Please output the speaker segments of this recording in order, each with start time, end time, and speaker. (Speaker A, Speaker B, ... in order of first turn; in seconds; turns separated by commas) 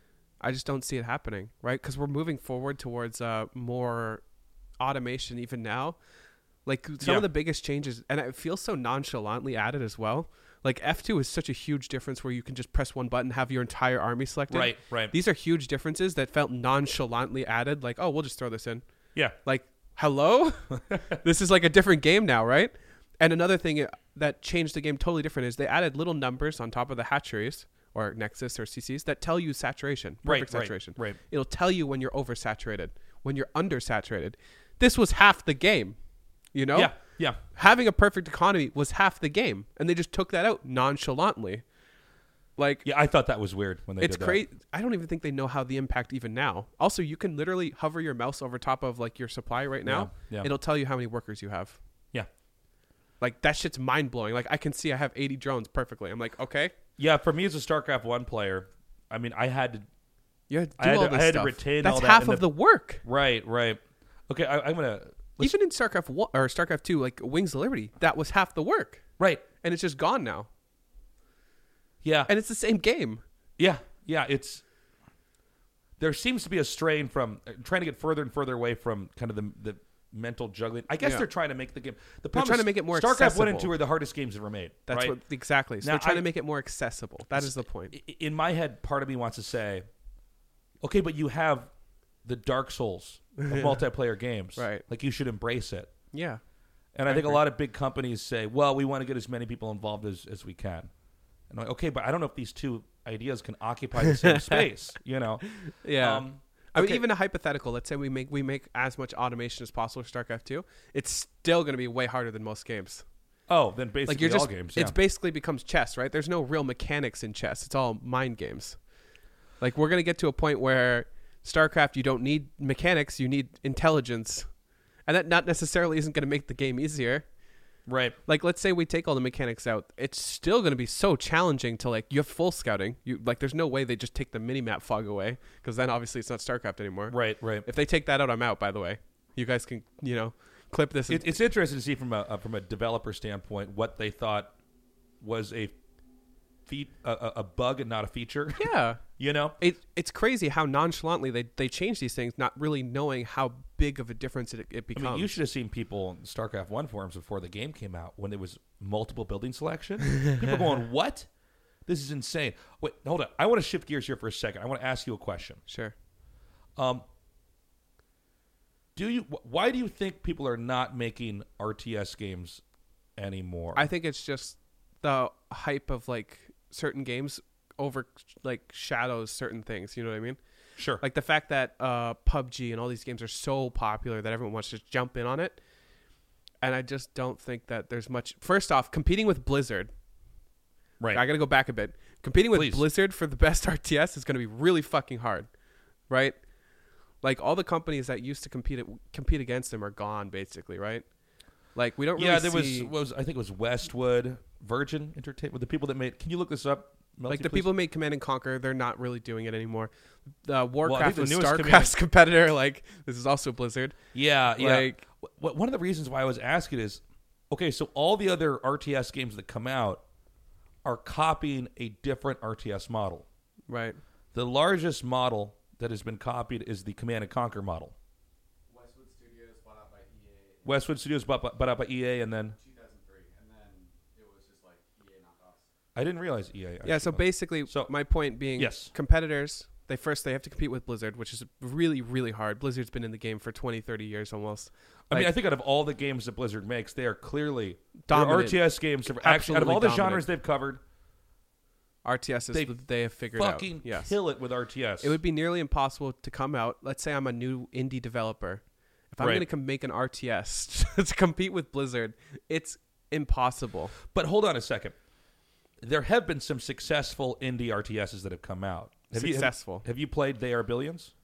Speaker A: 0.4-4.2, Speaker A: 4.8-6.0, Speaker A: 6.7-18.8, Speaker B: 7.0-7.2, Speaker B: 14.5-15.1, Speaker A: 19.4-36.0, Speaker B: 30.2-31.2, Speaker A: 36.5-37.0, Speaker B: 36.7-37.4, Speaker A: 37.5-41.6, Speaker A: 42.6-42.8, Speaker B: 42.8-44.4, Speaker A: 44.0-51.8, Speaker B: 49.8-50.5, Speaker A: 53.2-56.7, Speaker B: 57.0-59.9, Speaker A: 60.5-63.0, Speaker B: 60.8-62.4, Speaker B: 63.0-65.5, Speaker A: 65.4-69.0, Speaker B: 69.2-69.4, Speaker A: 69.6-70.5, Speaker B: 72.0-72.3, Speaker A: 72.3-73.2, Speaker B: 73.6-74.6, Speaker B: 76.0-85.2, Speaker A: 82.3-83.7, Speaker A: 84.9-87.9, Speaker B: 85.8-86.2, Speaker B: 87.3-89.8, Speaker B: 90.8-91.7, Speaker B: 92.2-95.9, Speaker A: 93.4-93.8, Speaker A: 94.5-94.8, Speaker A: 96.1-96.4, Speaker B: 96.9-100.9, Speaker A: 97.1-97.4, Speaker B: 101.5-107.0, Speaker A: 104.1-104.6, Speaker A: 105.5-113.0, Speaker B: 113.5-115.0, Speaker A: 114.1-118.8, Speaker A: 119.6-124.5, Speaker A: 125.1-127.2, Speaker B: 127.9-128.2, Speaker A: 128.2-141.3, Speaker B: 137.1-137.7, Speaker B: 141.1-144.5, Speaker B: 145.2-145.7, Speaker B: 146.7-149.6, Speaker A: 148.6-149.0, Speaker A: 149.6-155.4, Speaker B: 154.9-161.3, Speaker B: 161.8-165.6, Speaker A: 165.7-165.9, Speaker B: 166.8-167.0, Speaker B: 168.9-172.6, Speaker B: 173.2-173.8, Speaker A: 173.7-180.4, Speaker B: 180.8-181.0, Speaker A: 181.0-185.6, Speaker A: 186.6-189.9, Speaker A: 191.1-195.5, Speaker B: 192.5-192.8, Speaker A: 196.1-196.4, Speaker A: 197.2-201.0, Speaker A: 201.7-202.9, Speaker B: 202.2-207.7, Speaker A: 207.3-209.9, Speaker A: 210.4-214.0, Speaker B: 210.8-211.9, Speaker B: 214.1-220.0, Speaker A: 214.5-215.0, Speaker B: 220.8-223.2, Speaker A: 223.7-224.0, Speaker B: 224.3-227.9, Speaker C: 228.7-230.8, Speaker B: 230.6-232.6, Speaker C: 232.5-235.7, Speaker B: 235.9-237.9, Speaker A: 236.8-245.3, Speaker B: 238.6-238.9, Speaker B: 245.1-250.8, Speaker A: 248.1-250.2, Speaker A: 252.0-254.1, Speaker B: 253.3-255.1, Speaker A: 255.0-263.9, Speaker B: 259.2-259.4, Speaker B: 264.1-264.9, Speaker B: 265.8-271.1, Speaker A: 269.1-269.8